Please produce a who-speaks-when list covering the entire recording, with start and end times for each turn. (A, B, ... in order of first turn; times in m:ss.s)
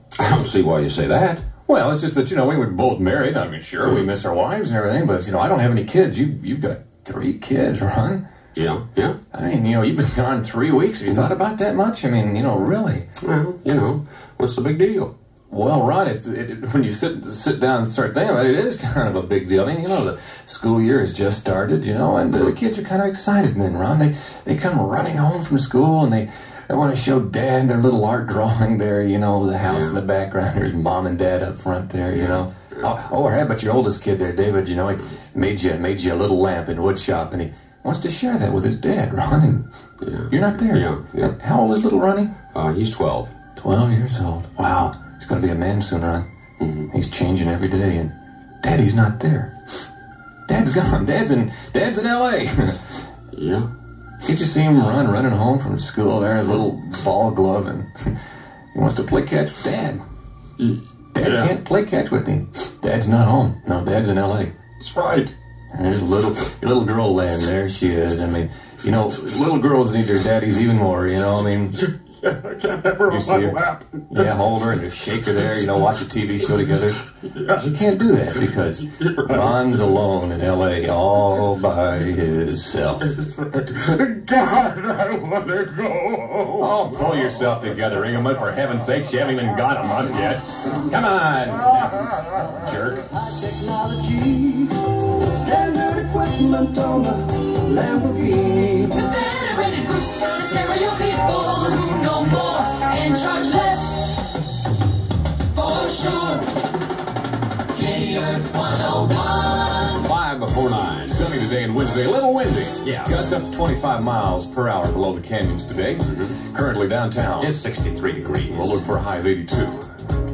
0:00.2-0:01.5 A
0:01.7-0:08.2 B
0:03.8-0:04.1 A
0:08.6-0:09.2 A
0:09.3-0:13.1 B
0:13.2-0:15.1 A
0:15.5-0:39.6 B
0:29.7-0:30.0 A
0:32.2-0:32.9 A
0:40.0-0:41.3 A
0:40.3-0:42.3 B
0:42.5-0:43.3 A
0:43.6-0:46.3 B
0:46.6-0:46.9 A
0:46.9-0:49.5 B
0:50.5-0:53.0 B
0:53.3-0:53.7 A
0:54.2-0:58.1 B
0:58.7-1:00.0 B
1:00.6-1:01.5 A
1:01.1-1:04.5 B
1:04.8-1:05.3 A
1:05.7-1:11.8 B
1:12.2-1:14.2 A
1:13.0-1:23.2 B
1:17.2-1:17.7 A
1:18.9-1:19.8 A
1:23.1-1:26.8 A
1:26.6-1:33.3 B
1:33.3-1:39.0 C
1:39.0-1:44.3 D
1:45.5-1:46.6 D
1:47.8-1:49.8 D
1:49.8-1:51.2 A
1:51.0-1:57.5 B
1:52.8-1:53.1 A
1:56.1-1:56.4 A
1:57.4-1:58.8 A
1:58.5-1:59.8 B